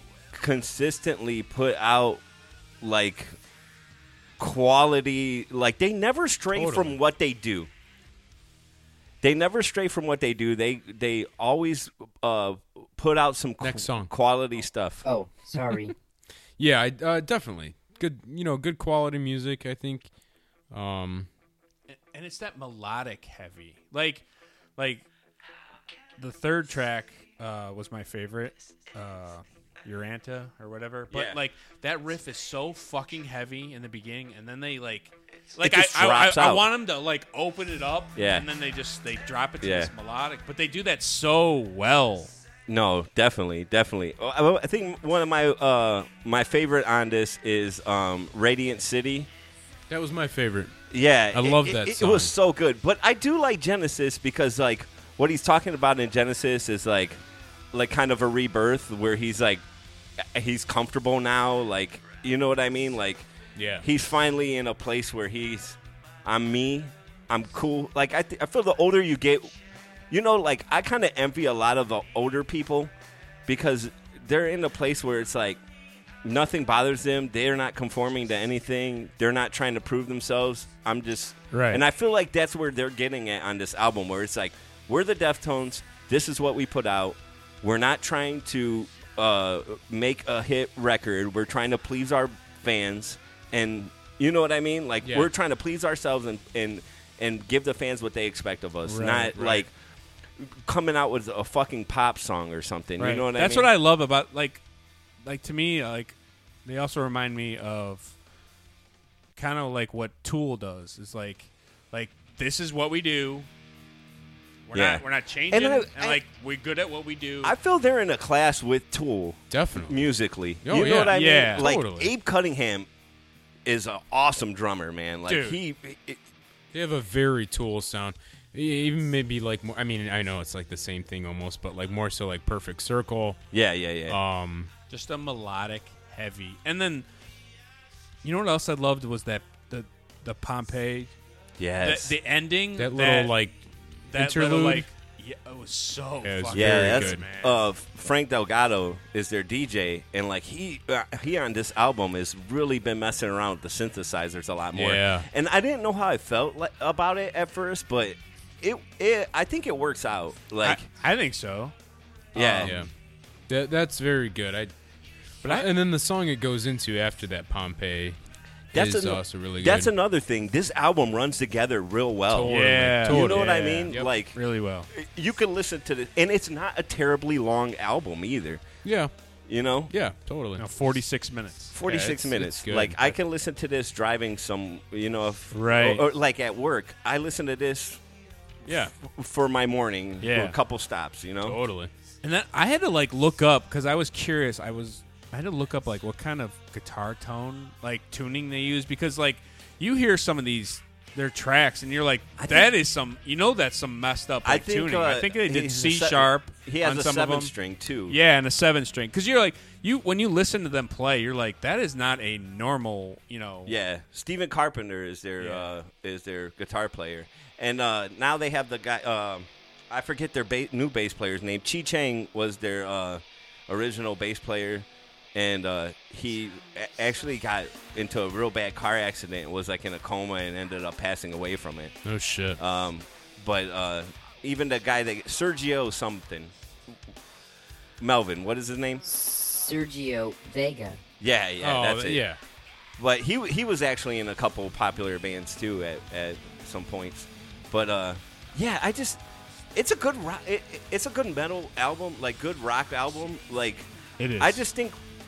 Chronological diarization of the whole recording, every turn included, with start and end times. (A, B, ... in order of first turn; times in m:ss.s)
0:00.3-0:02.2 A
0:02.8-0:03.4 A
0:04.4-0:07.7 A
0:06.5-0:06.9 B
0:09.2-0:15.0 A
0:13.6-0:14.1 B
0:15.0-0:15.9 C
0:15.5-0:15.8 B
0:16.6-0:20.1 B
0:20.7-0:21.3 B
0:21.9-0:24.2 D
0:24.8-0:25.0 D
0:26.2-0:42.3 D
0:31.1-0:31.4 A
0:35.6-0:36.7 A
0:38.2-0:38.5 A
0:39.6-0:39.9 A
0:42.7-0:49.3 A
0:49.9-0:50.7 B
0:50.9-0:57.2 A
0:51.3-0:52.3 B
0:57.7-0:59.6 A
1:00.2-1:03.3 A
1:03.6-1:03.8 B
1:03.8-1:09.5 A
1:10.1-1:12.9 A
1:13.4-1:15.6 A
1:16.2-1:39.7 A
1:21.5-1:21.8 D
1:35.0-1:35.3 B
1:38.8-1:39.6 D
1:40.4-1:43.7 A
1:43.0-1:44.6 D
1:45.2-1:48.1 D
1:49.4-1:53.5 D
1:54.7-1:57.6 D
1:54.7-1:56.2 A
1:57.4-2:02.9 A
1:59.5-2:00.1 B
2:00.6-2:02.1 B
2:01.1-2:01.6 D
2:03.6-2:06.2 A
2:05.3-2:05.6 D
2:06.7-2:13.4 B
2:13.5-2:14.2 A
2:14.1-2:14.7 B
2:14.9-2:17.0 D
2:18.2-2:21.1 D
2:21.6-2:22.1 A
2:21.8-2:23.4 D
2:22.8-2:23.6 B
2:24.1-2:27.6 D
2:24.1-2:24.9 B
2:26.2-2:27.2 B
2:26.5-2:40.8 A
2:34.8-2:35.3 B
2:40.6-2:41.7 D
2:42.3-2:42.8 A
2:42.4-2:42.9 B
2:42.4-2:42.8 D
2:43.5-2:44.7 B
2:45.4-2:48.2 B
2:48.7-2:54.4 A
2:48.7-2:49.9 B
2:52.3-2:54.1 B
2:52.5-2:54.9 D
2:54.9-2:58.6 A
2:58.8-2:59.1 B
2:59.5-2:59.9 A
2:59.9-3:00.6 B
3:00.6-3:01.8 D
3:01.7-3:08.0 A
3:01.8-3:03.0 B
3:05.5-3:06.0 D
3:08.6-3:08.9 B
3:08.6-3:11.6 A
3:10.2-3:10.6 D
3:11.4-3:11.9 B
3:12.2-3:27.5 D
3:22.4-3:22.7 A
3:24.4-3:28.2 A
3:28.1-3:33.7 D
3:33.6-3:51.9 A
3:35.4-3:35.7 D
3:52.0-3:52.6 B
3:52.6-3:56.5 A
3:58.0-3:59.0 A
3:59.0-4:01.0 C
4:01.2-4:02.2 A
4:01.6-4:02.4 B
4:03.0-4:09.2 A
4:09.7-4:15.0 A
4:14.2-4:14.6 D